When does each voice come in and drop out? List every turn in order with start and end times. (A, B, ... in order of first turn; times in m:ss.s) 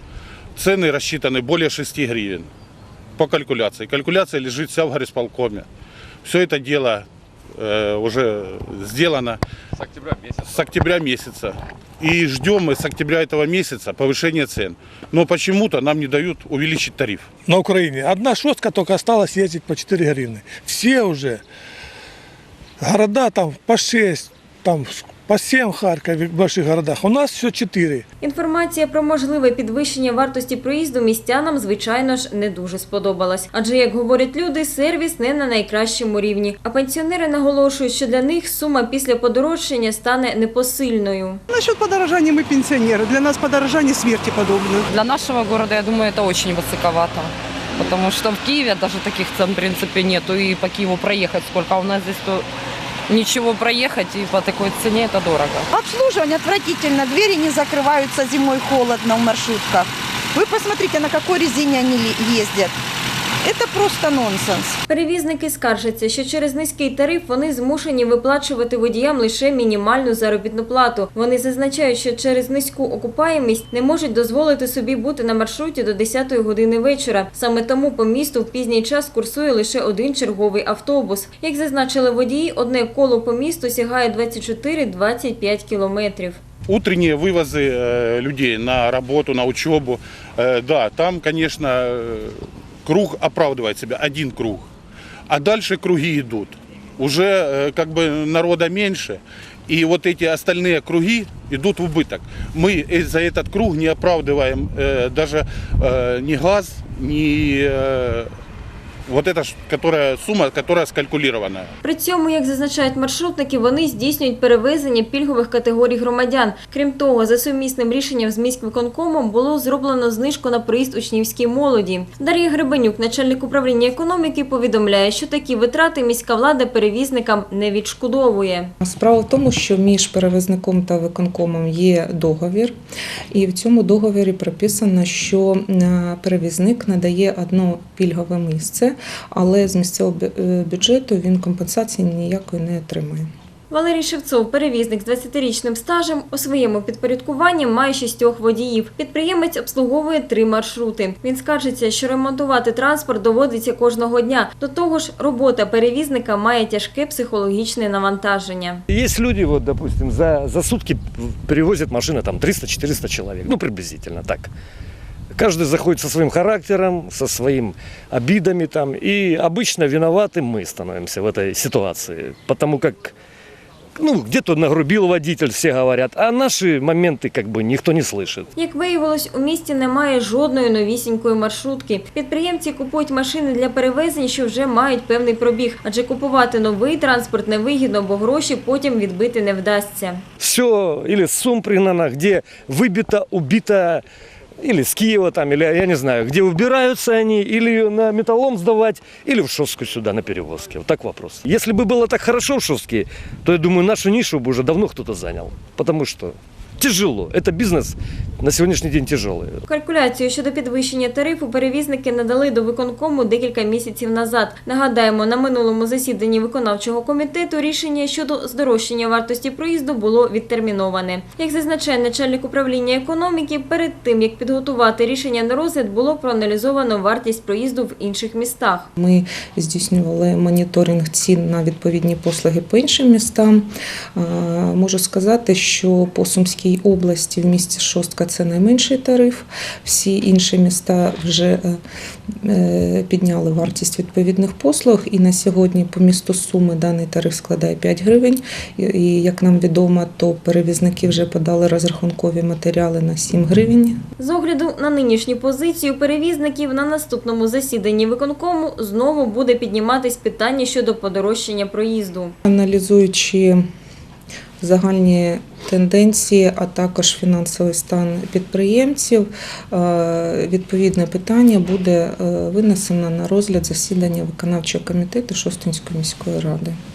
0:00.6-0:02.5 A
0:03.2-0:05.7 A
0:06.2-0:07.1 A
0:07.6-0:09.4 A
0:10.4-0:17.3 A
0:17.5-0:21.4 B
0:22.8-0:28.0 B
0:28.2-0:41.4 C
0:41.5-0:44.9 D
0:44.9-0:52.5 E
0:53.1-0:55.7 E
0:55.9-1:02.8 F
1:03.4-1:04.8 F
1:04.9-1:26.4 C
1:26.7-1:34.7 A
1:35.3-1:48.3 A
1:49.1-1:51.7 A
1:51.8-2:08.7 C
2:08.8-2:12.8 G
2:13.3-2:23.3 G
2:23.7-2:38.8 C
2:38.9-2:44.5 H
2:45.4-2:53.2 H
2:54.0-2:58.5 H
2:58.6-3:10.2 C
3:10.4-3:14.0 H
3:14.6-3:29.6 H
3:29.7-3:48.9 C
3:49.0-4:01.8 G
4:02.4-4:14.0 G
4:14.2-4:22.4 C
4:22.4-4:23.6 G
4:24.6-4:36.8 G